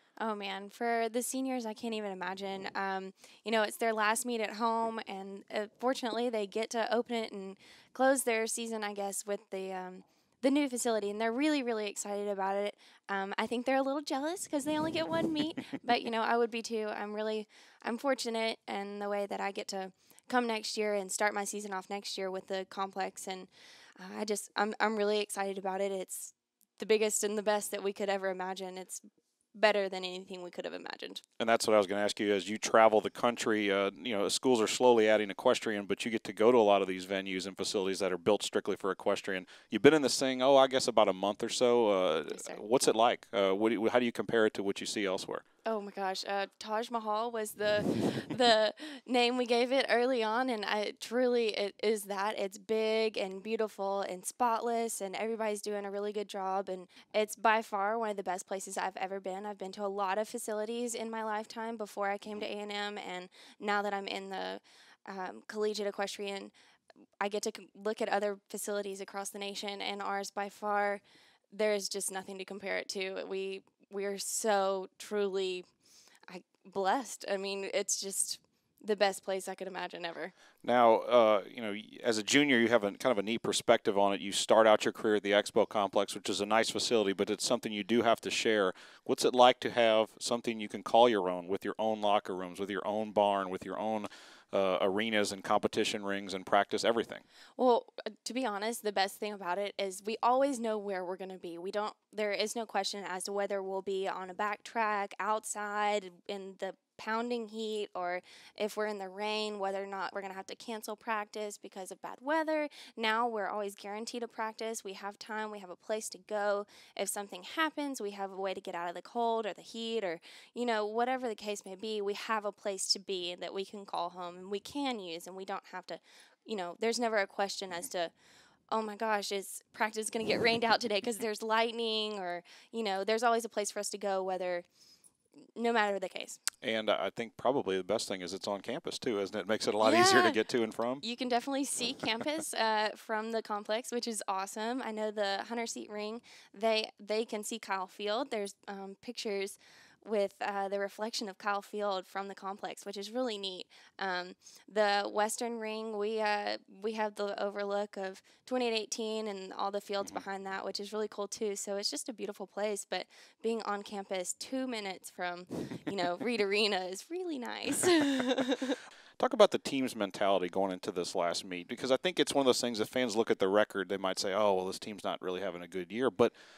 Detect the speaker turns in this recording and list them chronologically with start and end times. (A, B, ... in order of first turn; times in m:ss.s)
0:00.2-0:31.2 A
0:31.4-0:45.4 B
0:42.3-0:42.6 A
0:45.6-1:06.5 A
1:07.2-1:15.6 A
1:16.3-1:20.3 A
1:20.6-1:37.2 B
1:37.6-2:08.1 A
2:08.7-2:14.7 A
2:15.6-2:16.4 A
2:16.6-2:21.0 B
2:19.8-2:20.4 A
2:21.0-2:48.8 A
2:49.2-2:56.3 B